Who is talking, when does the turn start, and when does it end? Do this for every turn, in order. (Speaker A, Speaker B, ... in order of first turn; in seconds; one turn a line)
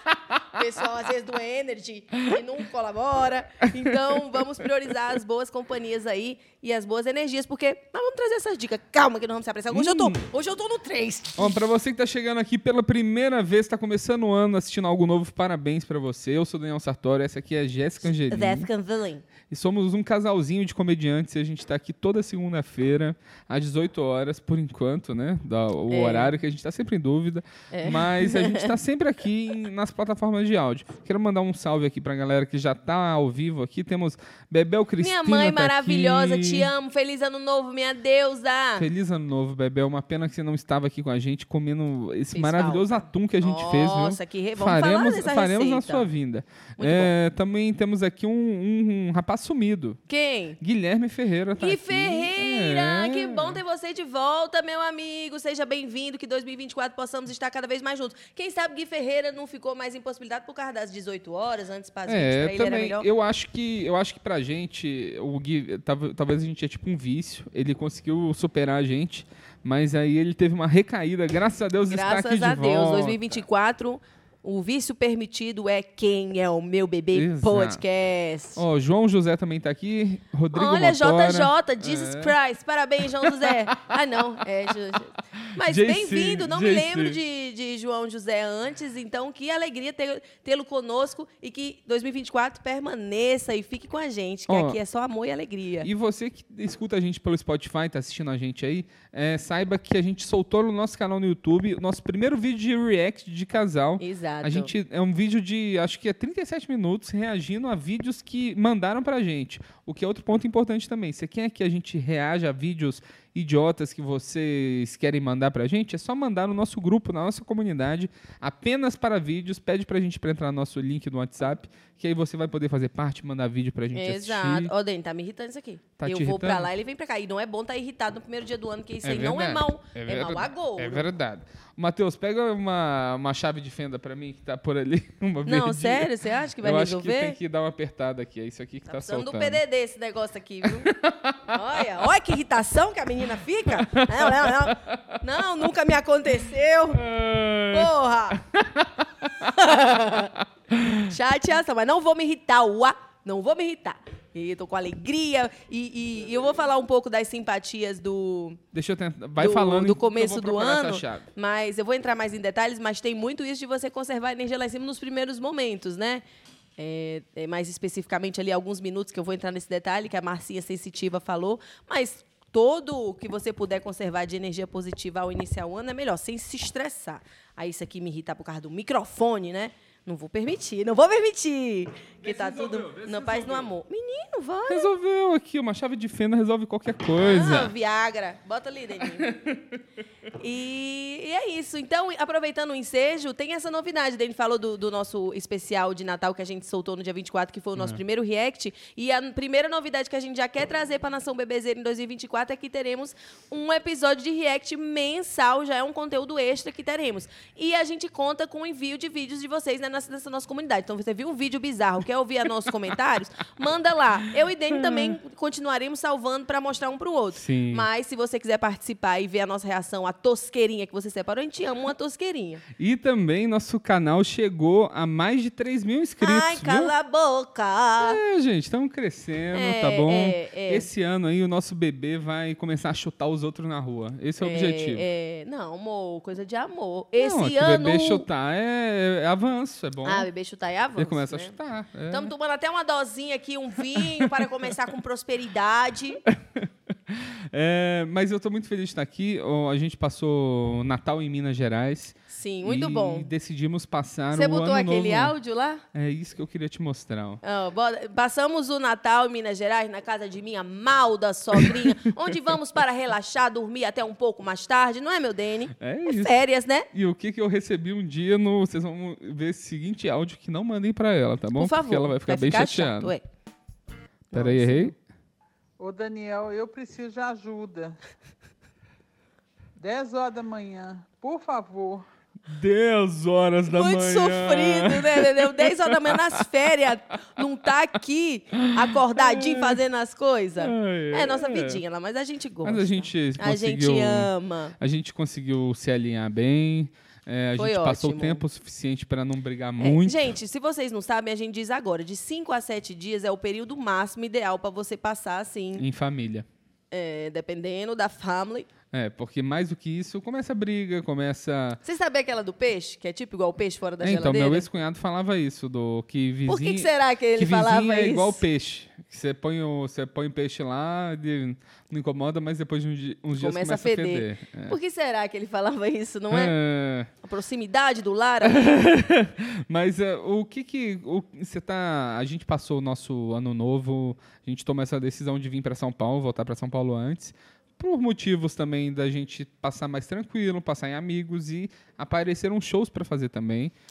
Speaker A: 0.5-11.6
Speaker B: 3.9-4.4
Speaker B: 9.7-10.2
Speaker B: 11.3-18.7
Speaker A: 18.3-19.2
Speaker B: 19.5-36.7
Speaker A: 25.9-26.3
Speaker A: 27.7-28.7
Speaker A: 35.0-38.9
Speaker B: 38.8-50.0
Speaker A: 42.3-46.1
Speaker A: 46.8-47.1
Speaker A: 50.1-50.6
Speaker B: 50.6-53.6
Speaker A: 51.6-63.1
Speaker B: 62.0-73.4
Speaker A: 71.9-78.6
Speaker B: 77.1-77.8
Speaker B: 78.5-82.4
Speaker A: 80.5-95.9
Speaker B: 83.2-83.9
Speaker B: 85.5-87.2
Speaker B: 94.5-94.8
Speaker B: 95.8-124.7
Speaker A: 104.0-104.7
Speaker A: 123.9-131.1
Speaker B: 126.0-126.7
Speaker B: 129.0-139.6
Speaker A: 135.4-137.4
Speaker A: 138.9-140.9
Speaker B: 140.6-141.6
Speaker A: 141.5-147.1
Speaker B: 143.7-145.2
Speaker B: 146.9-149.5
Speaker A: 147.7-148.4
Speaker A: 149.4-150.3
Speaker B: 150.7-151.1
Speaker A: 151.0-158.6
Speaker B: 158.7-161.3
Speaker A: 159.4-166.2
Speaker A: 166.8-184.9
Speaker B: 182.2-183.7
Speaker B: 184.7-187.7
Speaker A: 187.2-189.3
Speaker B: 189.1-189.8
Speaker A: 190.4-222.6
Speaker B: 214.7-215.2
Speaker B: 217.3-217.9
Speaker B: 222.7-226.9
Speaker A: 226.2-228.2
Speaker B: 228.0-235.0
Speaker A: 229.5-230.9
Speaker A: 234.4-238.2
Speaker B: 237.2-240.3
Speaker A: 240.0-241.6
Speaker B: 240.9-242.3
Speaker A: 242.1-246.2
Speaker B: 243.9-244.5
Speaker B: 246.3-255.3
Speaker A: 252.3-253.3
Speaker A: 254.3-255.8
Speaker B: 255.9-257.4
Speaker A: 257.4-266.9
Speaker B: 261.5-262.3
Speaker B: 265.7-266.4
Speaker B: 266.9-273.1
Speaker A: 271.5-273.2
Speaker A: 274.3-274.8
Speaker B: 274.3-274.9
Speaker C: 275.8-277.9
Speaker C: 279.8-282.1
Speaker B: 282.5-286.5
Speaker A: 283.7-294.8
Speaker B: 288.6-289.8
Speaker B: 290.6-291.8
Speaker B: 292.6-300.3
Speaker A: 297.6-298.4
Speaker A: 299.8-305.8
Speaker B: 305.8-306.5
Speaker A: 306.9-308.7
Speaker B: 308.9-311.8
Speaker A: 311.8-314.6
Speaker B: 314.0-324.8
Speaker A: 316.5-318.4
Speaker A: 323.4-326.5
Speaker B: 326.3-327.1
Speaker A: 327.2-328.7
Speaker B: 328.4-343.7